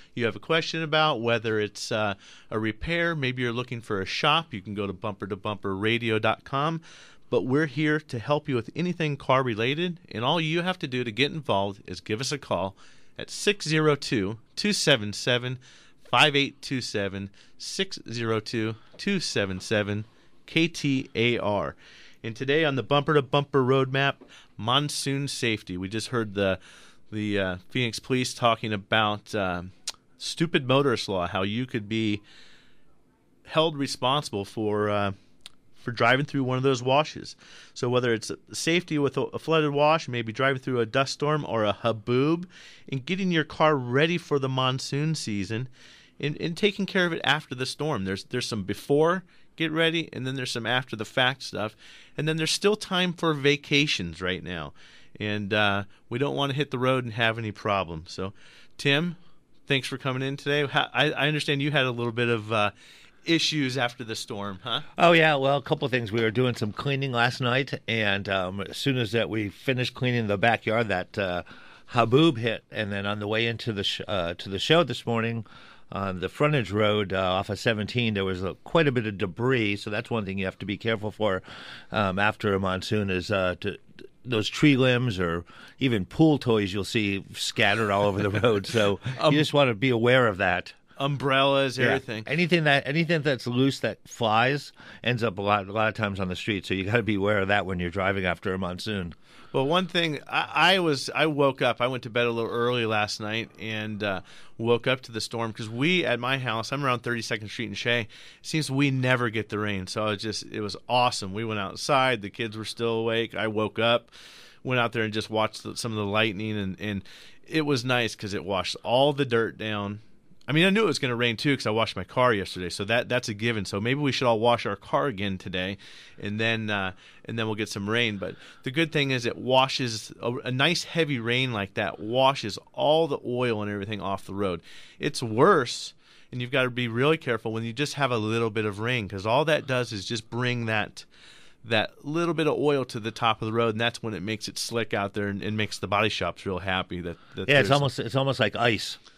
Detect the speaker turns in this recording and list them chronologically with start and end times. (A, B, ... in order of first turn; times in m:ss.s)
0:00.1-0:26.6 A
0:27.1-0:32.2 A
0:33.4-0:35.1 A
0:35.8-0:45.7 A
0:46.2-1:02.7 A
1:03.2-1:04.8 A
1:05.0-1:30.8 B
1:29.2-1:29.4 A
1:31.0-1:32.2 A
1:31.8-1:39.1 B
1:39.5-1:54.1 A
1:54.6-2:21.0 A
2:21.6-2:27.9 A
2:27.4-2:29.0 B